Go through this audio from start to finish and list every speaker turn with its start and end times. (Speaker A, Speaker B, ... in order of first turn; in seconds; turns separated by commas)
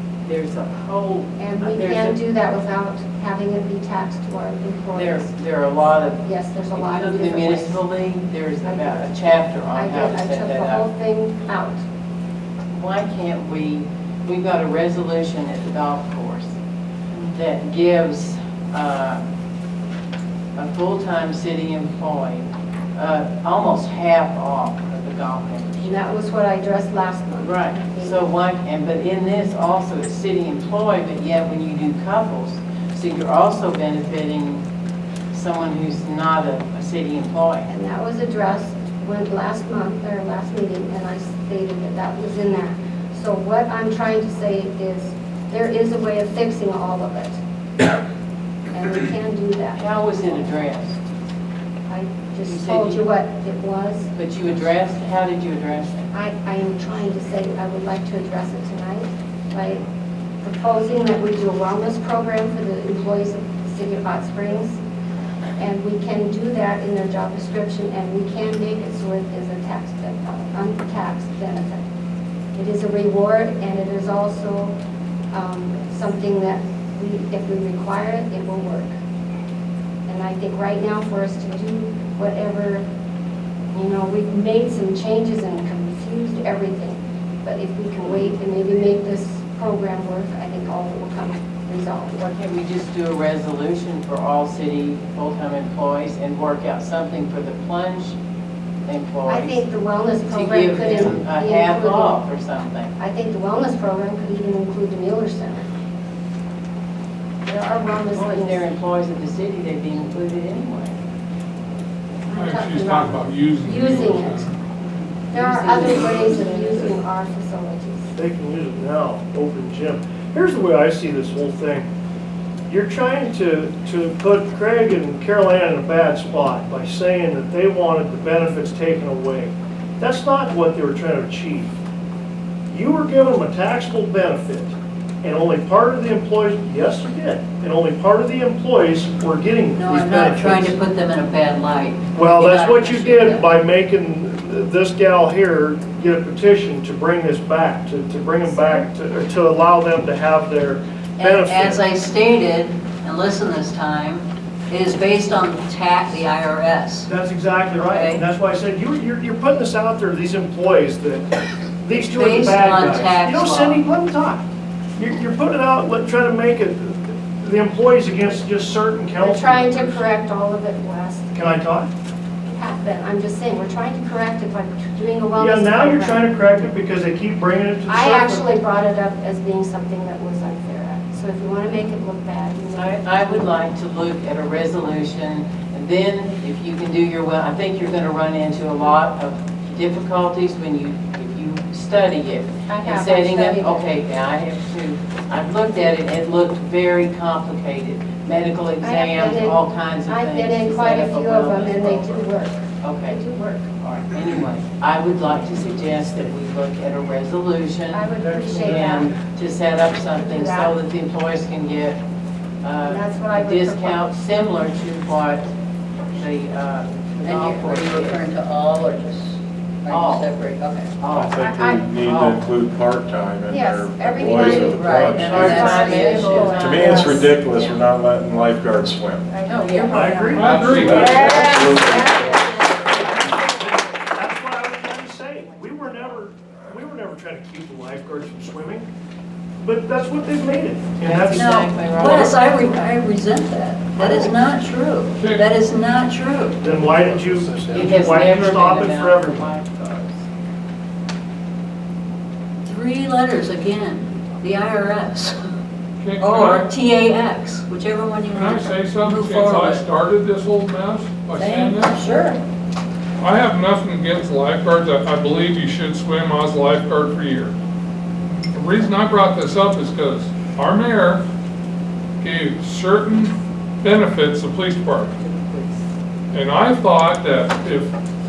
Speaker A: 0.2-2.2, Speaker B: 1.4-5.2, Speaker A: 4.9-10.9, Speaker B: 6.2-7.8, Speaker B: 8.6-9.1, Speaker B: 9.7-11.8, Speaker A: 12.7-16.6, Speaker A: 17.2-19.2, Speaker A: 20.6-26.0, Speaker B: 25.8-28.3, Speaker A: 27.4-34.6, Speaker A: 35.3-37.7, Speaker B: 37.7-47.4, Speaker B: 48.7-50.5, Speaker A: 49.8-51.0, Speaker B: 51.9-54.1, Speaker A: 52.5-53.0, Speaker A: 54.1-56.1, Speaker B: 56.1-59.8, Speaker B: 60.4-64.8, Speaker B: 65.6-71.8, Speaker B: 72.5-74.8, Speaker B: 75.3-79.0, Speaker B: 80.1-82.8, Speaker B: 83.7-92.2, Speaker A: 92.2-98.2, Speaker A: 98.8-99.7, Speaker B: 99.3-102.2, Speaker A: 100.3-102.9, Speaker B: 103.0-105.7, Speaker B: 107.5-108.6, Speaker A: 108.2-111.0, Speaker B: 112.3-114.5, Speaker C: 112.3-114.6, Speaker A: 114.9-117.0, Speaker B: 115.3-118.1, Speaker D: 115.8-116.3, Speaker D: 118.1-121.9, Speaker D: 122.7-131.8, Speaker D: 132.7-140.8, Speaker E: 139.8-143.5, Speaker D: 142.1-151.8, Speaker E: 151.2-157.1, Speaker D: 157.1-164.4, Speaker E: 157.8-158.2, Speaker E: 161.9-163.8, Speaker D: 165.0-170.0, Speaker B: 169.2-171.3, Speaker D: 171.3-171.9, Speaker B: 172.4-176.4, Speaker D: 175.3-178.5, Speaker B: 177.9-183.6, Speaker A: 182.8-202.2, Speaker B: 192.7-193.9, Speaker B: 198.8-203.7, Speaker A: 202.8-203.2, Speaker A: 203.8-212.0, Speaker B: 207.9-209.2, Speaker D: 208.2-209.1, Speaker B: 210.0-210.8, Speaker A: 212.6-215.5, Speaker B: 212.9-214.1, Speaker A: 216.1-218.2, Speaker E: 217.2-220.9, Speaker A: 219.9-220.3, Speaker A: 221.0-222.4, Speaker F: 221.1-225.9, Speaker B: 223.5-227.3, Speaker E: 224.4-227.2, Speaker D: 224.9-225.5, Speaker A: 225.3-226.8, Speaker F: 226.5-229.3, Speaker A: 227.4-227.8, Speaker B: 229.3-230.4, Speaker A: 229.4-231.7, Speaker E: 229.7-230.2, Speaker D: 229.9-231.3, Speaker C: 230.4-231.0, Speaker F: 230.4-232.6, Speaker B: 230.9-232.5, Speaker D: 232.9-238.9, Speaker D: 239.6-241.5, Speaker A: 241.0-242.9, Speaker E: 241.3-246.6, Speaker A: 244.0-244.3, Speaker C: 245.2-245.5, Speaker D: 246.6-249.5, Speaker F: 246.7-248.3, Speaker A: 247.7-250.2, Speaker E: 252.6-255.4, Speaker C: 256.0-256.7, Speaker E: 256.2-259.9, Speaker C: 258.3-262.0, Speaker E: 261.4-262.4, Speaker C: 263.2-267.5, Speaker C: 268.4-271.2, Speaker C: 272.2-275.1, Speaker A: 275.2-275.8, Speaker C: 276.3-277.9